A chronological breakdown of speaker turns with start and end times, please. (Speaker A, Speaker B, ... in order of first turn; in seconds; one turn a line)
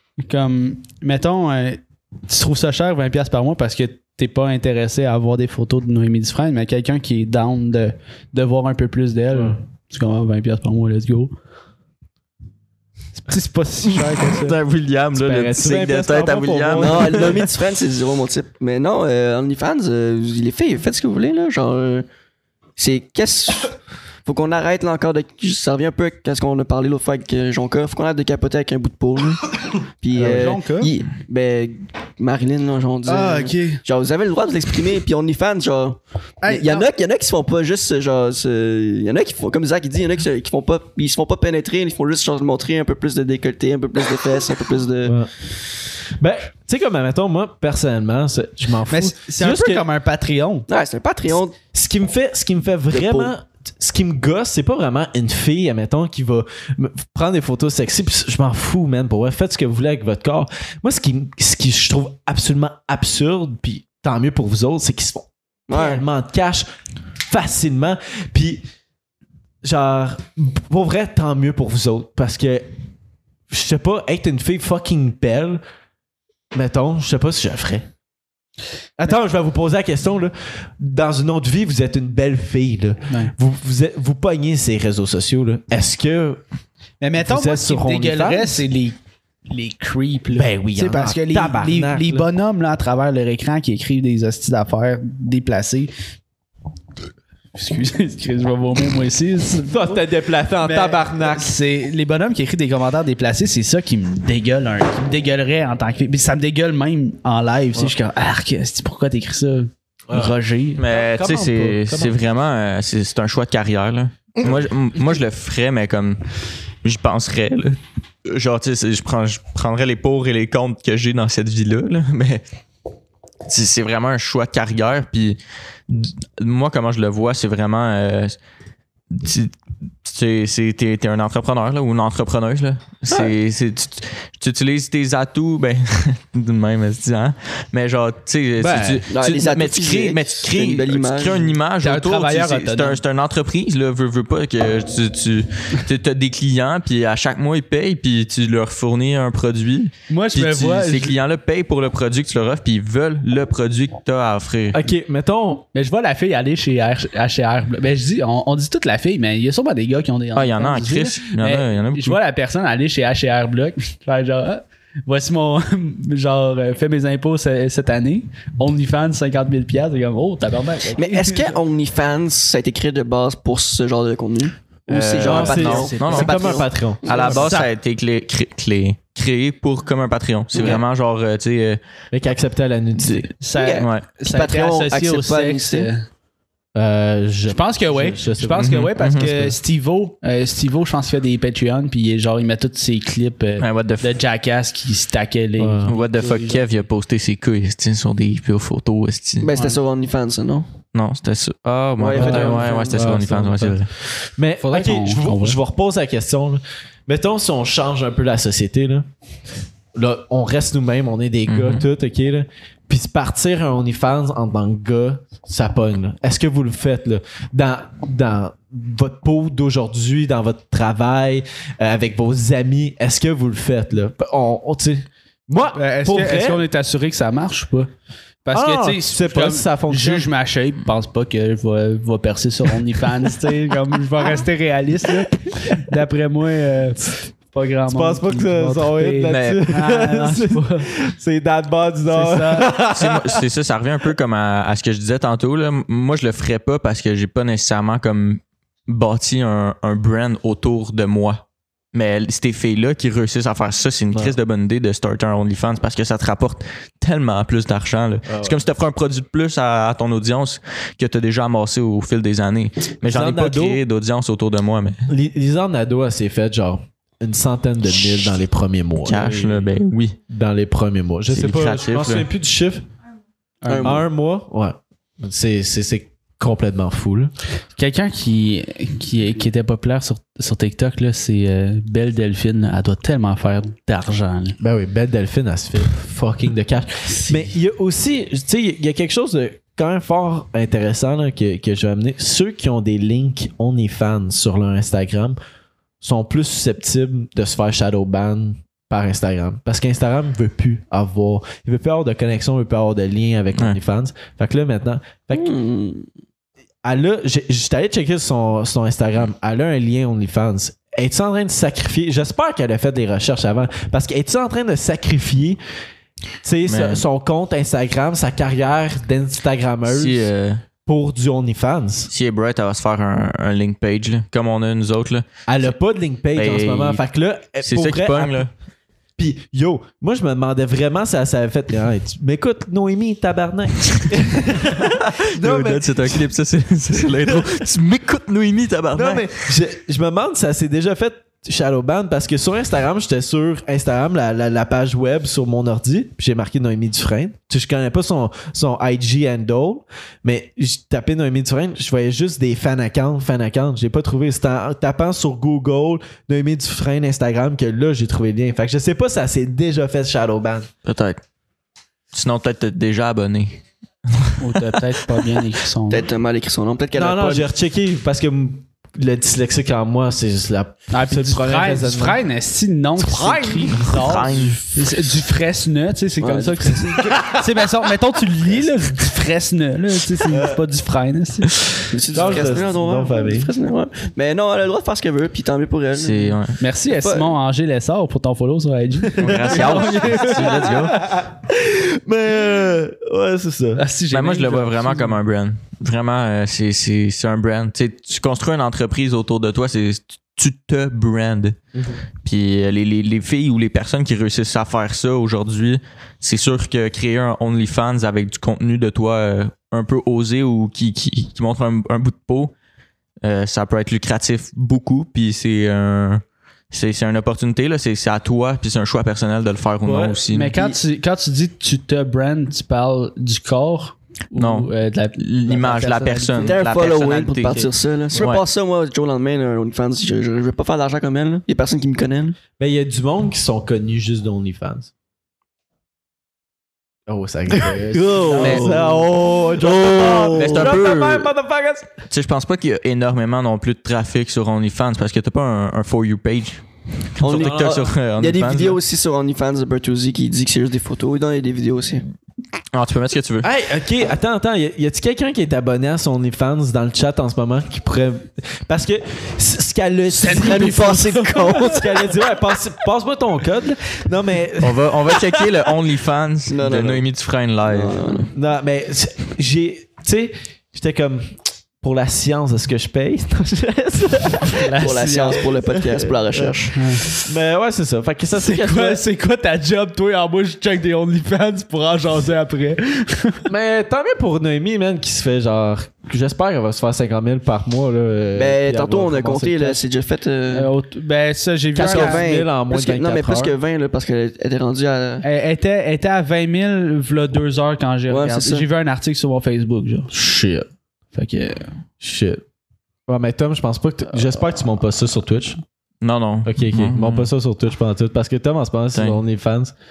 Speaker A: 0.2-11.3
Speaker B: 9.3-9.6
Speaker A: 13.2-14.6
Speaker C: 14.2-17.5
Speaker B: 15.2-17.5
Speaker D: 16.8-22.1
Speaker D: 22.8-45.2
Speaker A: 30.1-30.9
Speaker A: 33.0-33.8
Speaker A: 36.4-36.9
Speaker B: 45.0-45.3
Speaker B: 46.1-49.8
Speaker A: 48.9-50.7
Speaker D: 50.7-51.5
Speaker B: 51.7-66.7
Speaker D: 52.9-53.3
Speaker D: 65.7-66.0
Speaker B: 67.2-68.6
Speaker B: 69.6-72.7
Speaker B: 73.5-75.6
Speaker B: 76.5-77.9
Speaker B: 79.0-86.4
Speaker A: 83.1-83.3
Speaker A: 87.0-95.9
Speaker B: 87.2-88.6
Speaker B: 90.3-92.3
Speaker A: 97.5-100.0
Speaker B: 99.7-101.5
Speaker A: 100.6-110.9
Speaker B: 110.1-110.3
Speaker C: 110.8-116.2
Speaker B: 110.9-112.2
Speaker C: 116.8-122.4
Speaker C: 123.5-128.4
Speaker C: 129.1-154.8
Speaker B: 138.6-139.1
Speaker D: 139.1-141.5
Speaker A: 141.8-143.0
Speaker A: 150.1-151.2
Speaker B: 154.7-155.6
Speaker A: 155.7-171.6
Speaker C: 160.3-162.2
Speaker D: 170.9-177.3
Speaker C: 174.9-181.8
Speaker B: 175.2-177.5
Speaker A: 175.7-176.3
Speaker A: 177.1-177.7
Speaker D: 180.5-180.8
Speaker B: 182.1-183.3
Speaker C: 183.0-184.1
Speaker A: 183.4-186.1
Speaker D: 183.5-185.9
Speaker B: 186.7-189.5
Speaker A: 187.5-196.6
Speaker C: 188.6-189.4
Speaker C: 193.6-194.2
Speaker B: 195.6-195.9
Speaker C: 195.9-199.5
Speaker D: 199.4-200.7
Speaker C: 200.9-203.9
Speaker D: 202.0-203.2
Speaker B: 202.1-209.1
Speaker A: 204.6-205.6
Speaker B: 209.9-226.6
Speaker C: 211.5-211.8
Speaker A: 225.7-227.9
Speaker A: 228.4-240.9
Speaker B: 228.5-230.3
Speaker B: 237.9-243.4
Speaker C: 239.3-239.6
Speaker A: 242.1-242.7
Speaker C: 242.9-265.1
Speaker B: 258.3-258.6
Speaker B: 263.0-263.8
Speaker B: 265.1-269.7
Speaker C: 269.0-270.2
Speaker B: 270.3-272.8
Speaker C: 271.3-272.3
Speaker A: 273.6-274.0
Speaker D: 273.7-274.0
Speaker B: 273.8-277.3
Speaker A: 277.7-284.6
Speaker B: 284.6-295.4
Speaker B: 296.0-305.5
Speaker D: 305.3-306.1
Speaker B: 306.8-315.6
Speaker B: 316.4-320.3
Speaker C: 316.7-317.0
Speaker C: 319.9-320.6
Speaker B: 320.9-322.1
Speaker C: 322.1-325.7
Speaker B: 325.5-328.5
Speaker C: 326.3-327.0
Speaker C: 327.6-328.5
Speaker B: 329.2-336.3
Speaker C: 334.8-339.5
Speaker B: 336.9-337.6
Speaker B: 338.9-360.7
Speaker C: 360.8-361.2
Speaker C: 362.1-364.8
Speaker A: 364.4-366.1
Speaker D: 365.9-367.5
Speaker B: 366.9-372.2
Speaker A: 370.9-381.5
Speaker B: 373.0-374.4
Speaker C: 373.7-374.6
Speaker D: 376.2-377.1
Speaker B: 377.1-377.4
Speaker B: 380.3-380.6
Speaker D: 381.9-386.4
Speaker B: 382.1-383.5
Speaker C: 385.9-386.6
Speaker A: 386.6-390.5
Speaker D: 386.9-387.3
Speaker B: 389.1-393.8
Speaker C: 389.2-391.0
Speaker A: 393.8-395.1
Speaker C: 394.1-401.6
Speaker B: 401.7-402.0
Speaker C: 402.2-412.5
Speaker C: 413.2-420.6
Speaker B: 419.8-420.3
Speaker A: 420.3-426.6
Speaker C: 424.4-428.4
Speaker D: 426.4-432.4
Speaker B: 432.6-434.9
Speaker B: 437.1-441.9
Speaker D: 437.7-440.8
Speaker C: 438.4-438.8
Speaker C: 440.3-441.3
Speaker C: 442.1-448.8
Speaker D: 447.2-452.0
Speaker B: 447.2-447.9
Speaker C: 452.7-453.5
Speaker B: 453.4-465.7
Speaker A: 460.1-461.8
Speaker D: 460.3-461.9
Speaker C: 464.6-468.3
Speaker D: 466.5-467.1
Speaker D: 467.7-468.3
Speaker B: 468.3-476.6
Speaker A: 474.5-475.4
Speaker D: 474.8-476.8
Speaker A: 476.7-477.1
Speaker B: 477.1-479.0
Speaker A: 478.3-483.5
Speaker B: 483.5-489.8
Speaker D: 488.3-490.7
Speaker A: 490.5-492.2
Speaker D: 491.7-495.2
Speaker B: 491.8-493.6
Speaker A: 495.2-500.3
Speaker D: 498.1-498.6
Speaker B: 500.1-500.6
Speaker A: 501.1-501.7
Speaker B: 502.0-502.4
Speaker B: 503.1-505.6
Speaker C: 506.0-507.3
Speaker B: 506.4-509.7
Speaker C: 508.9-509.2